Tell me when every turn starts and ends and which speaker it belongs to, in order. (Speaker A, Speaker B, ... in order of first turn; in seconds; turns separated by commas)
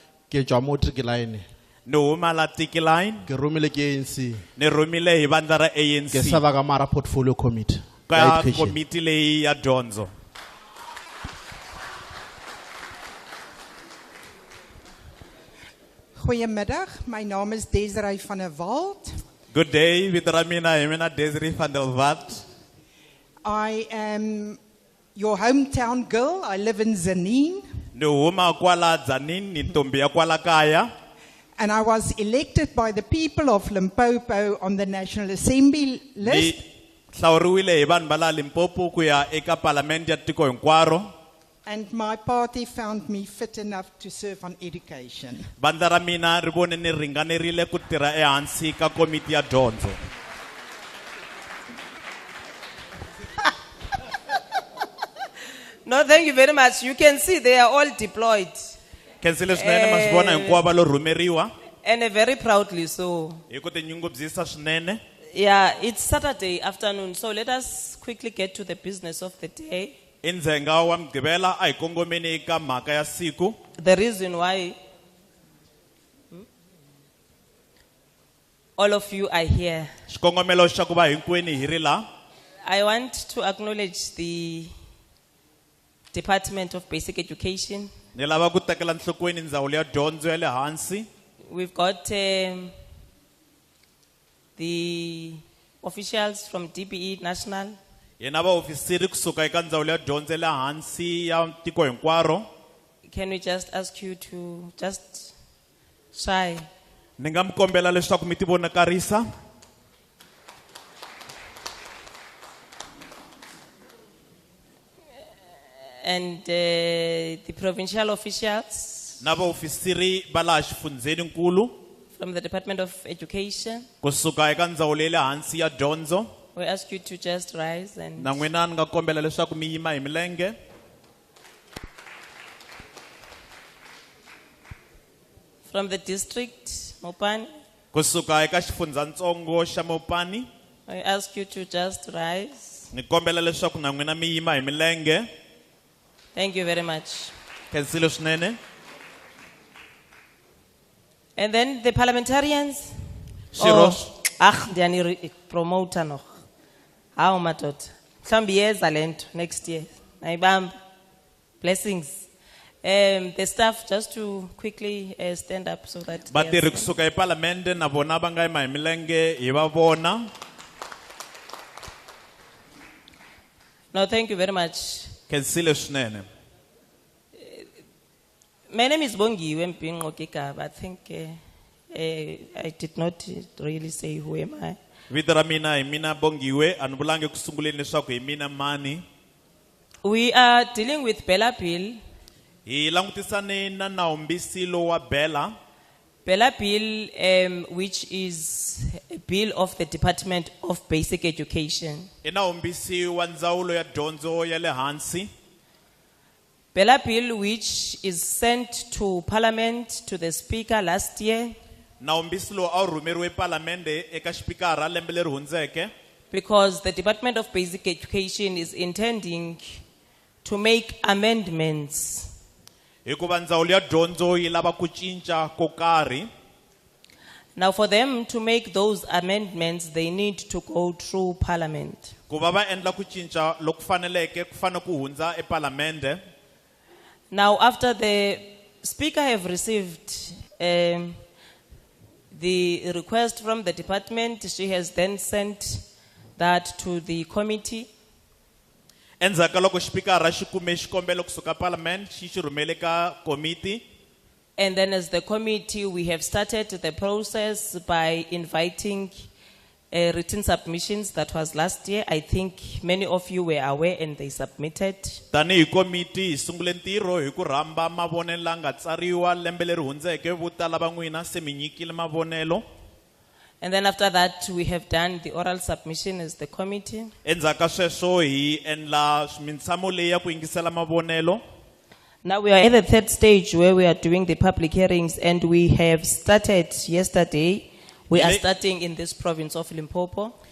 Speaker A: 0.3-1.4, Speaker B: 1.9-3.3, Speaker A: 3.2-4.4, Speaker B: 4.6-6.4, Speaker A: 6.1-8.8, Speaker B: 8.1-10.1, Speaker C: 16.1-19.2, Speaker B: 19.5-22.4, Speaker C: 23.4-24.6, Speaker C: 25.1-27.6, Speaker B: 27.9-30.9, Speaker C: 31.6-36.6, Speaker B: 36.2-36.6, Speaker B: 37.1-41.1, Speaker C: 41.6-45.5, Speaker B: 45.6-50.0, Speaker D: 55.8-58.8, Speaker B: 59.2-61.5, Speaker D: 59.5-60.6, Speaker D: 61.8-63.4, Speaker B: 63.5-65.0, Speaker D: 65.3-70.0, Speaker B: 70.2-73.6, Speaker D: 73.8-74.8, Speaker D: 78.8-79.9, Speaker B: 80.1-82.0, Speaker D: 82.6-84.7, Speaker D: 86.1-87.9, Speaker B: 88.1-91.1, Speaker D: 91.5-92.7, Speaker D: 94.6-97.8, Speaker B: 98.2-102.5, Speaker D: 103.0-105.3, Speaker D: 106.1-106.7, Speaker B: 107.2-109.2, Speaker D: 116.0-119.2, Speaker B: 119.2-121.7, Speaker D: 122.1-123.9, Speaker B: 124.0-126.3, Speaker D: 126.5-128.4, Speaker B: 128.2-130.5, Speaker D: 135.7-137.5, Speaker B: 137.9-140.5, Speaker D: 140.9-142.9, Speaker B: 142.9-145.2, Speaker D: 146.3-147.3, Speaker B: 147.7-148.6, Speaker D: 151.3-152.9, Speaker B: 153.5-154.1, Speaker D: 153.6-156.4, Speaker D: 157.2-160.7, Speaker D: 161.6-162.2, Speaker D: 162.8-166.9, Speaker B: 166.3-170.3, Speaker D: 173.9-175.1, Speaker B: 175.3-176.3, Speaker D: 177.4-177.7, Speaker D: 178.7-181.4, Speaker D: 181.9-184.8, Speaker B: 185.1-189.0, Speaker D: 190.0-192.0, Speaker B: 192.7-195.5, Speaker D: 196.2-202.1, Speaker B: 202.2-205.3, Speaker D: 206.7-211.5, Speaker B: 212.0-215.9, Speaker D: 216.3-219.8, Speaker D: 220.4-222.3, Speaker B: 223.0-226.3, Speaker D: 227.6-232.1, Speaker B: 232.3-236.2, Speaker D: 237.3-241.2, Speaker D: 242.3-245.8, Speaker D: 246.4-247.9, Speaker B: 249.2-253.8, Speaker D: 254.6-259.3, Speaker D: 259.9-265.2, Speaker B: 265.3-272.6, Speaker D: 273.6-277.1, Speaker B: 277.2-281.4, Speaker D: 282.2-290.3, Speaker B: 288.1-288.4